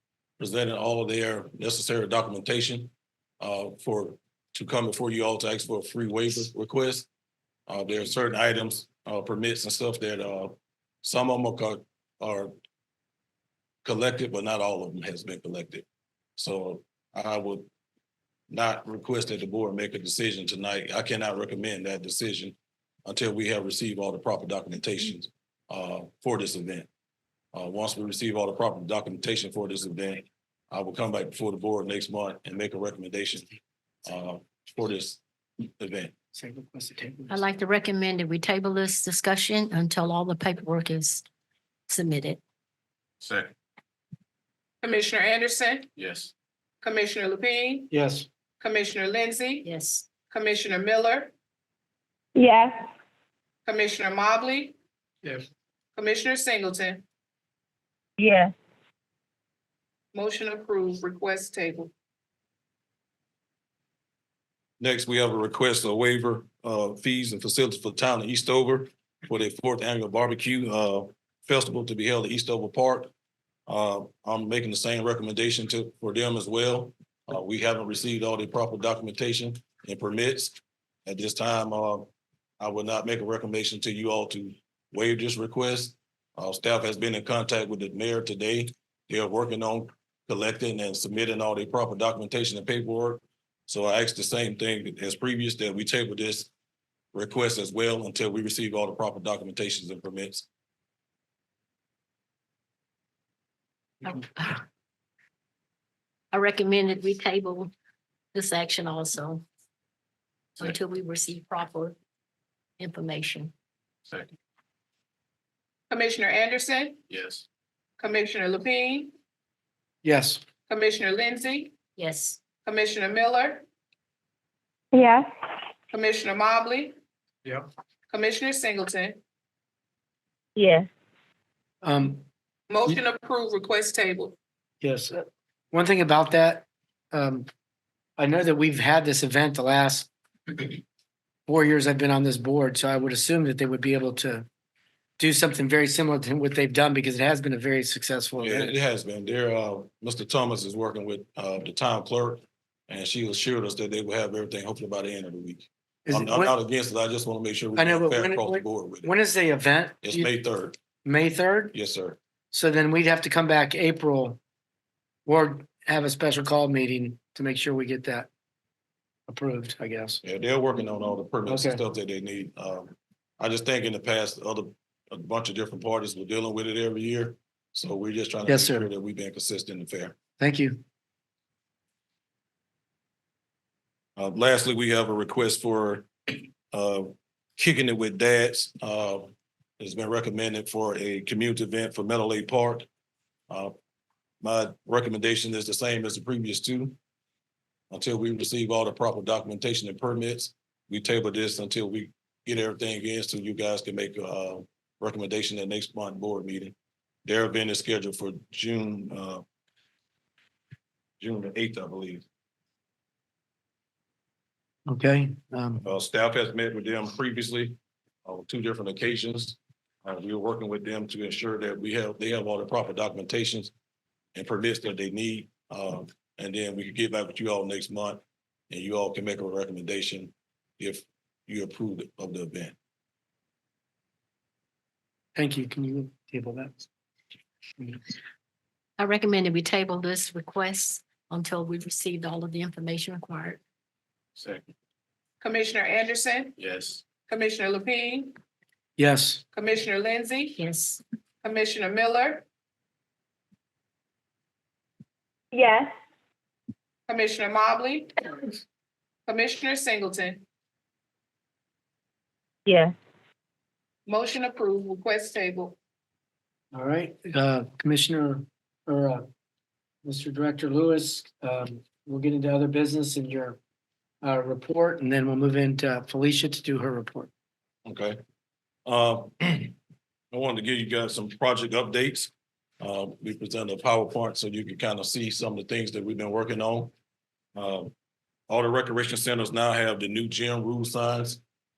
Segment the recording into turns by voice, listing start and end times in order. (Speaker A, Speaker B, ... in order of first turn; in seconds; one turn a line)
Speaker A: 0.4-7.1
Speaker A: 7.7-12.5
Speaker A: 13.8-15.8
Speaker A: 16.4-17.7
Speaker A: 18.5-26.9
Speaker A: 27.5-33.5
Speaker A: 34.0-36.1
Speaker B: 36.3-37.4
Speaker C: 37.3-41.2
Speaker C: 41.9-42.4
Speaker D: 43.2-43.5
Speaker E: 44.8-45.9
Speaker D: 46.0-46.3
Speaker E: 46.8-47.9
Speaker B: 47.9-48.3
Speaker E: 48.6-49.6
Speaker C: 49.6-50.1
Speaker E: 50.3-51.3
Speaker F: 52.4-52.9
Speaker E: 53.6-54.8
Speaker E: 55.9-57.0
Speaker F: 58.2-58.5
Speaker E: 60.1-61.9
Speaker A: 64.8-73.1
Speaker A: 73.7-82.1
Speaker A: 82.6-96.5
Speaker A: 97.1-100.5
Speaker C: 104.0-104.6
Speaker C: 106.3-107.7
Speaker C: 108.3-109.4
Speaker C: 110.6-112.0
Speaker C: 112.8-113.5
Speaker D: 114.0-114.3
Speaker E: 115.9-117.0
Speaker D: 117.1-117.5
Speaker E: 118.0-119.1
Speaker B: 120.0-120.4
Speaker E: 120.7-121.7
Speaker C: 122.0-122.4
Speaker E: 122.6-123.6
Speaker F: 124.9-125.3
Speaker E: 125.9-126.9
Speaker E: 128.1-129.2
Speaker F: 130.6-130.9
Speaker B: 131.8-132.2
Speaker E: 132.7-134.3
Speaker B: 134.8-137.5
Speaker B: 138.2-140.1
Speaker B: 141.5-144.5
Speaker B: 145.2-148.8
Speaker A: 148.4-159.1
Speaker B: 156.1-156.5
Speaker B: 157.8-160.3
Speaker A: 160.0-160.8
Speaker B: 161.0-161.7
Speaker A: 161.7-162.2
Speaker B: 162.5-164.4
Speaker B: 165.2-168.3
Speaker B: 169.3-170.2
Speaker A: 170.2-180.2
Speaker B: 171.5-171.8
Speaker B: 178.5-178.9
Speaker B: 180.4-180.8
Speaker A: 184.2-192.9
Speaker A: 194.4-196.9
Speaker A: 197.9-209.4
Speaker A: 211.2-212.2
Speaker B: 214.9-215.8
Speaker A: 215.8-223.7
Speaker A: 224.3-232.7
Speaker B: 235.3-236.8
Speaker C: 239.0-243.6
Speaker D: 244.3-244.7
Speaker E: 245.4-246.5
Speaker D: 246.6-247.1
Speaker E: 247.2-248.3
Speaker B: 249.0-249.4
Speaker E: 249.5-250.6
Speaker C: 250.6-251.0
Speaker E: 251.4-252.4
Speaker F: 255.5-255.9
Speaker E: 257.1-258.6
Speaker E: 259.3-260.4
Speaker F: 262.7-262.9
Speaker E: 264.1-265.8
Speaker B: 266.7-269.2
Speaker B: 270.0-273.6
Speaker B: 274.2-277.3
Speaker A: 277.8-278.2
Speaker A: 278.8-279.7
Speaker A: 280.3-286.9
Speaker A: 287.5-287.9
Speaker A: 288.5-291.4